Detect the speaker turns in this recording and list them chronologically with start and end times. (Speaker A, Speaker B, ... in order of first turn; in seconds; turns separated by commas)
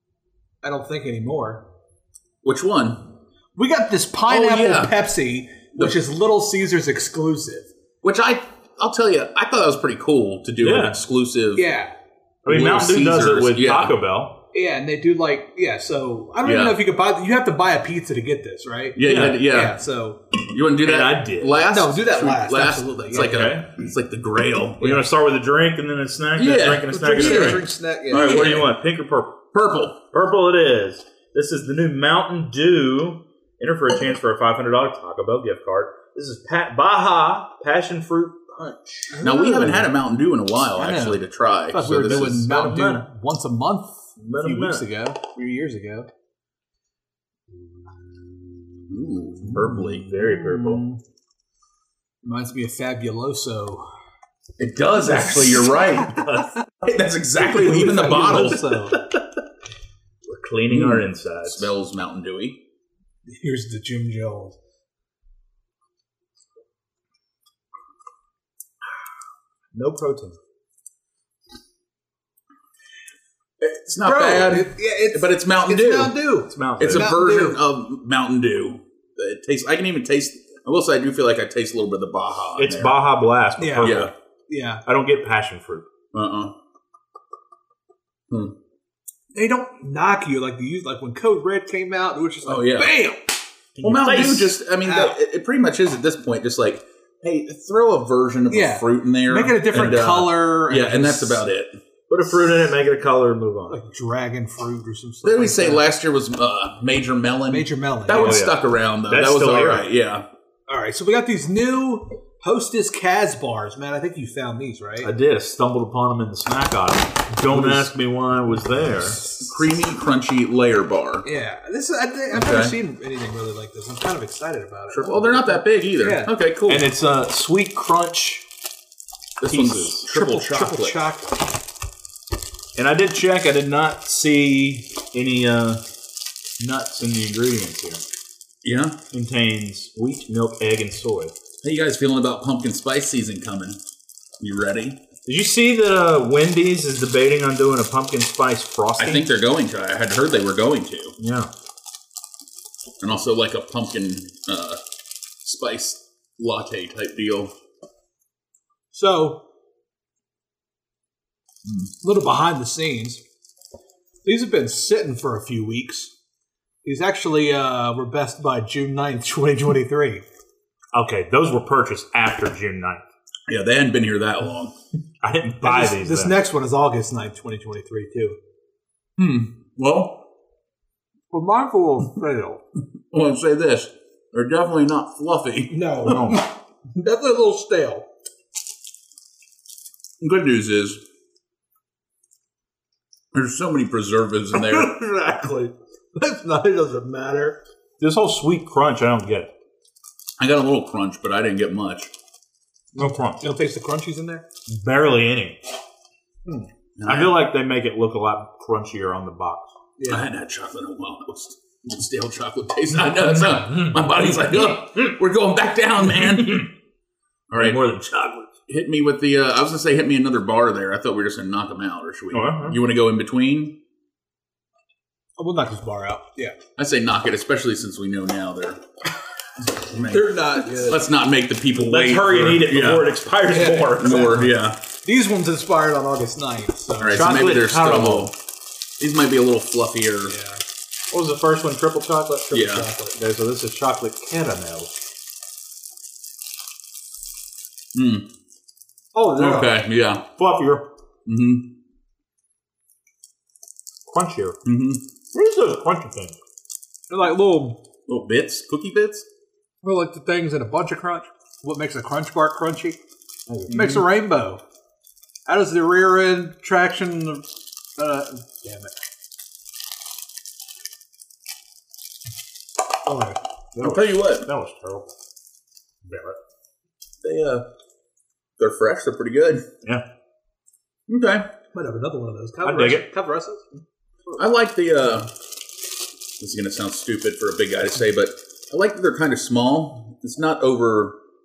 Speaker A: 0.6-1.6, Speaker B: 2.4-3.1, Speaker A: 3.6-7.7, Speaker B: 4.3-4.9, Speaker B: 8.0-11.7, Speaker C: 10.6-11.0, Speaker A: 11.6-11.9, Speaker C: 12.4-14.4, Speaker B: 12.5-13.9, Speaker A: 14.5-20.2, Speaker B: 16.4-16.8, Speaker B: 18.9-19.8, Speaker C: 19.0-19.4, Speaker B: 20.5-24.9, Speaker C: 20.8-21.6, Speaker A: 21.7-23.4, Speaker C: 23.2-23.7, Speaker C: 24.8-29.4, Speaker B: 26.4-28.7, Speaker A: 26.9-28.4, Speaker B: 29.5-30.0, Speaker C: 30.1-39.7, Speaker A: 39.1-39.8, Speaker B: 39.2-42.4, Speaker A: 40.8-46.1, Speaker C: 41.9-43.1, Speaker C: 44.2-44.9, Speaker B: 48.9-50.1, Speaker C: 49.5-50.9, Speaker A: 50.5-50.9, Speaker A: 52.2-53.8, Speaker B: 54.6-58.7, Speaker A: 55.1-55.9, Speaker C: 56.2-56.5, Speaker A: 57.4-59.0, Speaker C: 60.3-61.7, Speaker B: 60.7-62.6, Speaker A: 63.3-64.6, Speaker C: 69.7-70.4, Speaker B: 73.6-76.2, Speaker A: 74.0-77.6, Speaker C: 76.5-77.1, Speaker B: 76.8-83.0, Speaker C: 82.6-84.1, Speaker A: 83.6-84.8, Speaker B: 83.8-84.1, Speaker C: 84.8-85.9, Speaker B: 86.1-86.5, Speaker B: 88.3-88.5, Speaker A: 89.3-93.2, Speaker B: 92.5-93.0, Speaker C: 93.8-94.6, Speaker B: 93.8-101.8, Speaker A: 94.8-95.2, Speaker A: 98.5-101.5, Speaker C: 102.1-103.8, Speaker A: 103.7-105.9, Speaker B: 105.2-110.2, Speaker A: 107.5-108.4, Speaker C: 108.1-109.9, Speaker A: 110.7-115.1, Speaker C: 115.0-119.2, Speaker A: 117.5-117.9, Speaker B: 119.4-121.3, Speaker A: 121.2-126.3, Speaker B: 122.3-122.8, Speaker B: 124.9-126.9, Speaker C: 126.7-128.4, Speaker B: 129.4-131.0, Speaker C: 129.5-130.1, Speaker A: 130.1-131.3, Speaker C: 132.8-135.8, Speaker C: 136.6-138.0, Speaker B: 138.6-139.0, Speaker C: 139.1-141.3, Speaker B: 141.6-143.8, Speaker B: 144.4-145.0, Speaker C: 145.3-149.3, Speaker B: 149.0-151.2, Speaker C: 151.2-151.5, Speaker B: 153.0-154.8, Speaker B: 155.4-157.5, Speaker A: 158.9-159.4, Speaker A: 162.0-163.2, Speaker A: 164.2-166.1, Speaker A: 166.8-170.2, Speaker C: 170.9-173.1, Speaker B: 173.5-174.7, Speaker C: 175.2-176.4, Speaker A: 175.6-178.4, Speaker B: 179.2-180.2, Speaker A: 181.3-182.6, Speaker B: 183.1-186.2, Speaker A: 185.7-188.1, Speaker C: 186.0-186.4, Speaker B: 190.2-191.0, Speaker B: 193.3-194.9, Speaker A: 194.5-197.6, Speaker C: 198.0-199.5, Speaker B: 200.4-202.1, Speaker C: 202.9-203.4, Speaker A: 203.4-204.4, Speaker C: 204.7-205.6, Speaker B: 207.0-207.4, Speaker C: 207.1-209.7, Speaker A: 210.0-210.3, Speaker B: 210.1-216.7, Speaker C: 213.5-214.8, Speaker C: 216.0-216.7, Speaker B: 217.5-217.8, Speaker C: 217.6-218.5, Speaker B: 218.7-223.8, Speaker C: 222.3-222.8, Speaker A: 225.4-226.6, Speaker B: 226.8-228.8, Speaker B: 229.7-233.1, Speaker A: 230.1-231.1, Speaker C: 231.8-234.5, Speaker A: 233.5-237.3, Speaker B: 234.0-234.8, Speaker B: 237.0-238.4, Speaker C: 237.1-238.3, Speaker B: 239.0-240.4, Speaker A: 240.3-240.6, Speaker C: 241.1-244.9, Speaker B: 242.5-242.9, Speaker B: 247.9-248.3, Speaker A: 249.1-249.8, Speaker B: 249.4-250.2, Speaker C: 250.3-250.9, Speaker B: 251.3-251.7, Speaker C: 254.1-254.6, Speaker B: 254.7-255.0, Speaker C: 255.3-256.4, Speaker A: 257.1-257.8, Speaker B: 258.1-259.2, Speaker A: 259.8-263.0, Speaker C: 263.5-264.1, Speaker A: 263.7-264.6, Speaker A: 265.5-267.5, Speaker A: 268.0-268.9, Speaker A: 273.1-273.4, Speaker C: 273.8-275.1, Speaker B: 273.8-274.5, Speaker C: 276.1-276.4, Speaker B: 277.2-277.7, Speaker B: 278.6-279.6, Speaker B: 281.1-281.5, Speaker A: 281.7-283.6, Speaker C: 282.6-283.1, Speaker B: 284.4-285.3, Speaker B: 286.4-291.2